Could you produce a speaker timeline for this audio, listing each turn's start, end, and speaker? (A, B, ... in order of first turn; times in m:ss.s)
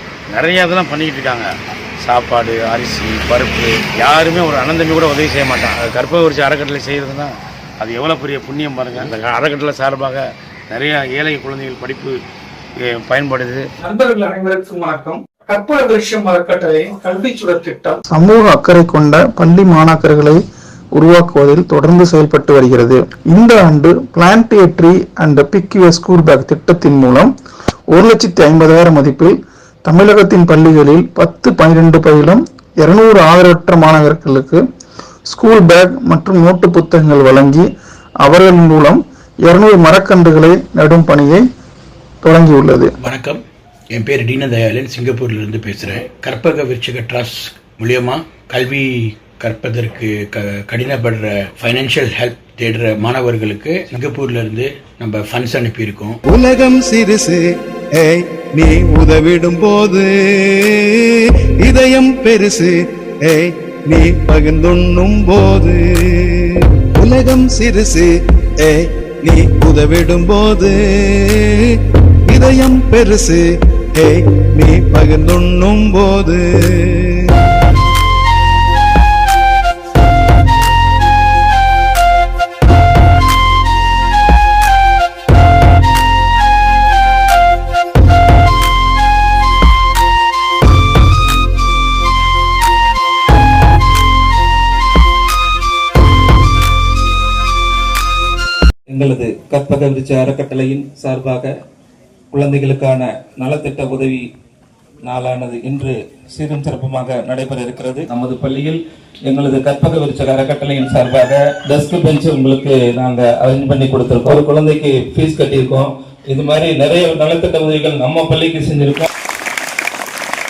0:00.3-0:12.2 A
0:12.8-0:13.7 A
0:13.9-0:18.0 B
0:18.1-0:20.4 C
0:21.0-0:27.3 C
0:27.9-0:29.3 C
0:29.9-0:34.6 C
0:35.3-0:37.6 C
0:38.2-0:41.4 C
0:42.2-0:42.9 C
0:43.0-0:43.4 D
0:43.9-0:48.9 D
0:49.4-0:56.2 D
0:56.3-0:57.4 E
0:58.0-1:08.1 E
1:08.6-1:11.8 E
1:12.3-1:13.4 E
1:14.0-1:17.3 E
1:38.9-1:41.5 F
1:42.3-1:44.2 F
1:45.0-1:59.1 F